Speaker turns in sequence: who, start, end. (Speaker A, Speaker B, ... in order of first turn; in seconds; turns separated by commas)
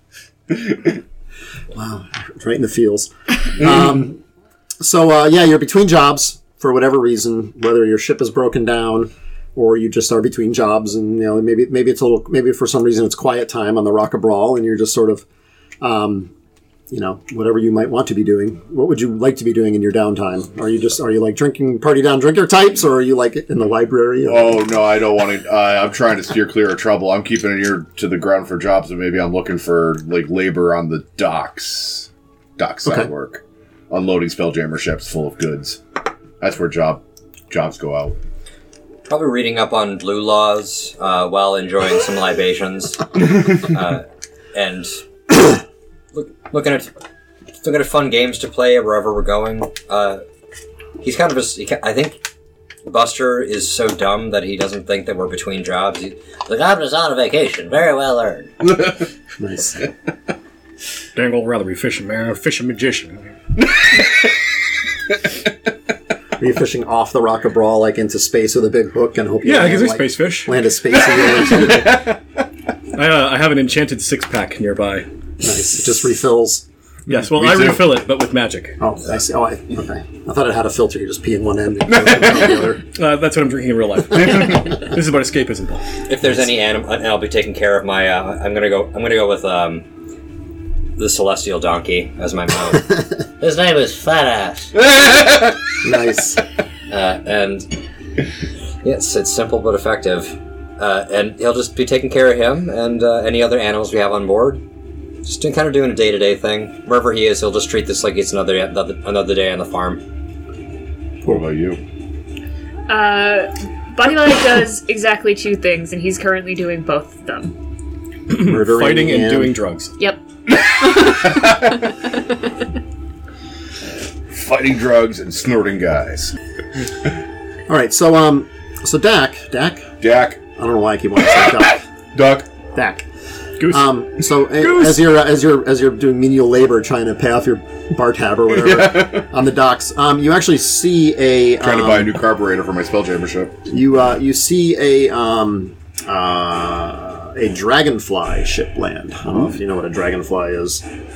Speaker A: 0.5-1.0, Speaker B: 1.7-4.2, Speaker B: 4.8-15.2, Speaker B: 15.8-16.3, Speaker B: 16.9-24.6, Speaker A: 24.2-35.8, Speaker A: 36.4-38.2, Speaker C: 39.0-45.0, Speaker C: 46.1-46.9, Speaker C: 47.6-50.2, Speaker C: 51.0-52.2, Speaker C: 52.9-56.2, Speaker D: 56.5-58.5, Speaker B: 59.4-59.9, Speaker E: 61.1-63.4, Speaker B: 66.4-72.0, Speaker E: 69.4-70.6, Speaker A: 71.6-72.2, Speaker E: 72.9-75.0, Speaker B: 75.4-76.6, Speaker A: 77.1-78.0, Speaker E: 77.1-78.8, Speaker B: 78.8-82.8, Speaker A: 81.9-82.6, Speaker E: 82.9-85.8, Speaker C: 86.0-89.8, Speaker C: 91.0-93.0, Speaker D: 93.4-94.7, Speaker A: 94.8-95.6, Speaker B: 95.8-96.4, Speaker C: 96.9-97.7, Speaker C: 98.8-104.6, Speaker C: 105.2-110.0, Speaker A: 111.2-111.8, Speaker F: 112.9-117.5, Speaker E: 118.3-119.9, Speaker B: 118.4-119.6, Speaker F: 120.0-122.1, Speaker A: 120.9-121.7, Speaker A: 124.3-126.3, Speaker B: 127.7-129.9, Speaker A: 130.0-130.4, Speaker B: 130.5-131.8, Speaker A: 132.1-132.5, Speaker B: 132.7-133.1, Speaker E: 133.6-133.9, Speaker B: 133.7-142.1, Speaker E: 134.6-135.0, Speaker A: 138.5-139.3, Speaker A: 141.6-143.6, Speaker B: 143.7-150.8